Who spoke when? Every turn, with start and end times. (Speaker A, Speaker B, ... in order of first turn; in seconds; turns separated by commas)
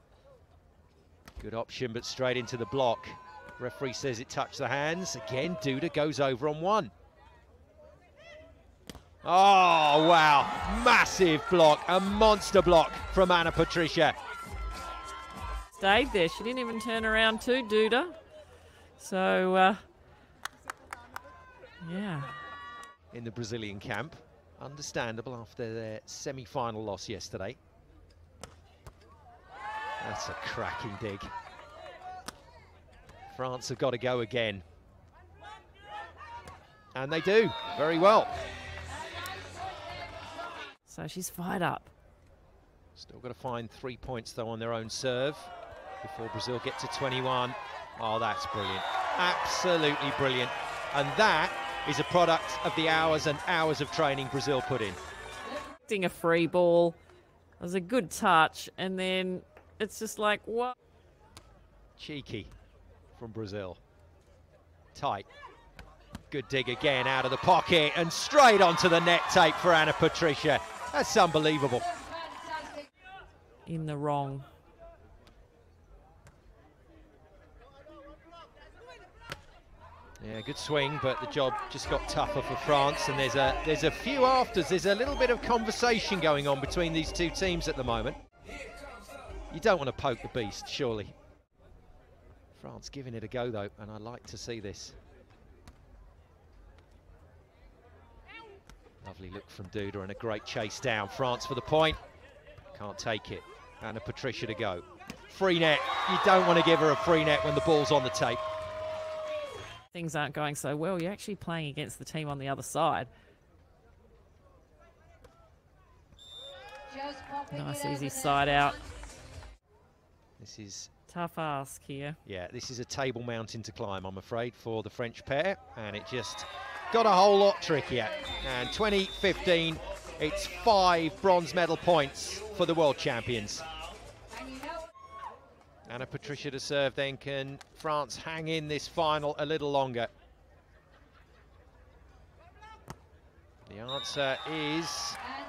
Speaker A: 1.4-6.9, Speaker A: 9.2-14.2, Speaker B: 15.7-18.2, Speaker B: 19.0-19.8, Speaker B: 21.8-22.4, Speaker A: 23.1-27.6, Speaker A: 30.0-31.3, Speaker A: 33.3-34.6, Speaker A: 36.9-38.3, Speaker B: 40.9-41.9, Speaker A: 43.0-55.0, Speaker B: 55.9-57.0, Speaker B: 57.6-60.7, Speaker A: 62.0-62.5, Speaker A: 63.1-63.8, Speaker A: 64.9-65.3, Speaker A: 66.3-71.9, Speaker B: 73.7-74.5, Speaker A: 80.2-88.2, Speaker A: 89.5-91.1, Speaker A: 92.5-95.0, Speaker A: 99.0-102.0, Speaker A: 102.7-108.4, Speaker B: 109.9-113.1, Speaker B: 117.5-118.8, Speaker A: 120.4-120.9, Speaker B: 121.1-122.2, Speaker A: 122.2-133.7, Speaker A: 135.9-140.1, Speaker A: 143.7-145.2